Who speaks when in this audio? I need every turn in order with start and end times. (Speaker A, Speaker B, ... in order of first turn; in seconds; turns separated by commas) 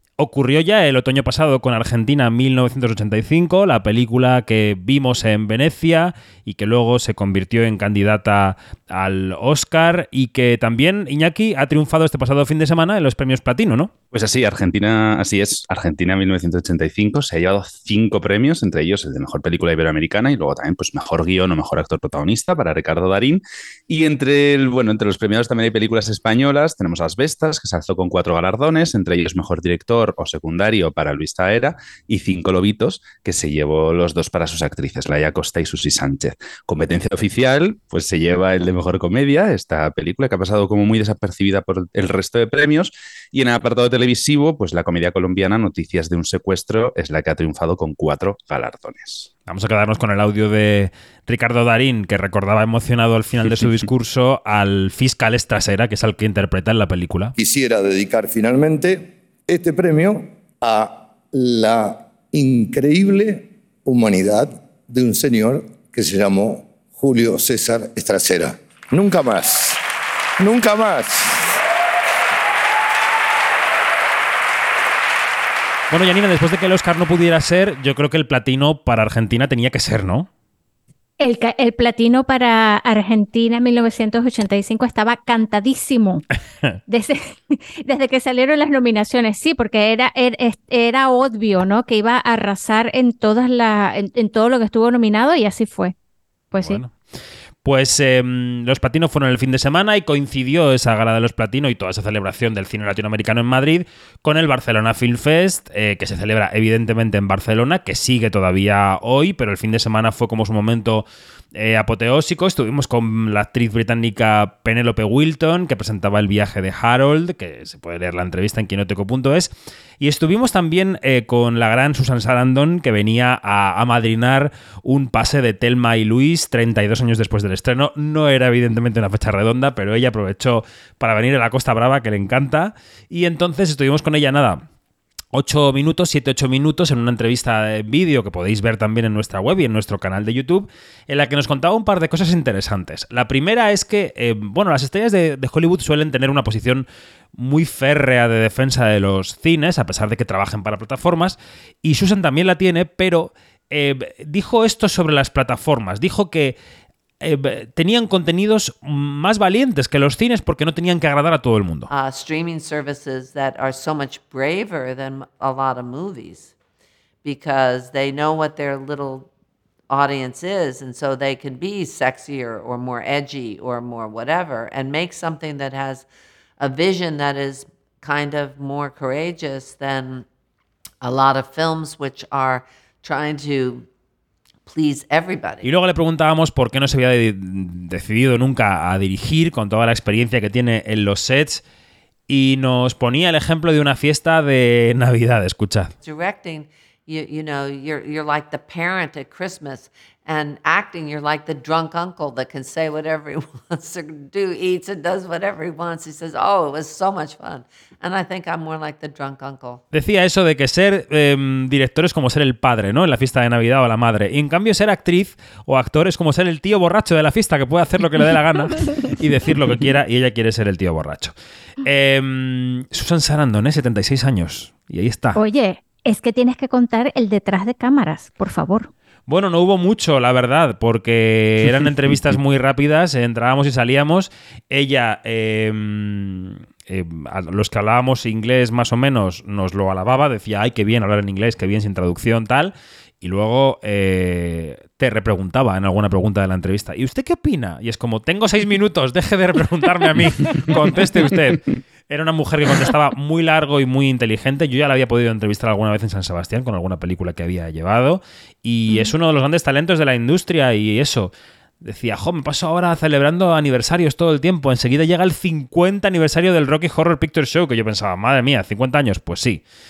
Speaker A: 0.2-13.9, Speaker B: 14.1-49.3, Speaker A: 49.5-57.4, Speaker C: 57.4-69.8, Speaker C: 70.4-71.6, Speaker A: 75.9-80.3, Speaker D: 81.2-86.2, Speaker D: 86.9-95.9, Speaker D: 96.5-96.8, Speaker A: 96.6-96.9, Speaker A: 97.6-134.6, Speaker A: 135.3-156.6, Speaker A: 157.2-161.9, Speaker E: 161.9-166.5, Speaker E: 167.2-169.3, Speaker E: 169.9-176.1, Speaker E: 176.6-180.2, Speaker E: 181.0-183.9, Speaker E: 184.7-185.7, Speaker A: 185.6-191.6, Speaker A: 192.3-195.9, Speaker E: 196.0-209.8, Speaker A: 209.9-225.4, Speaker D: 225.3-228.9, Speaker A: 229.3-269.6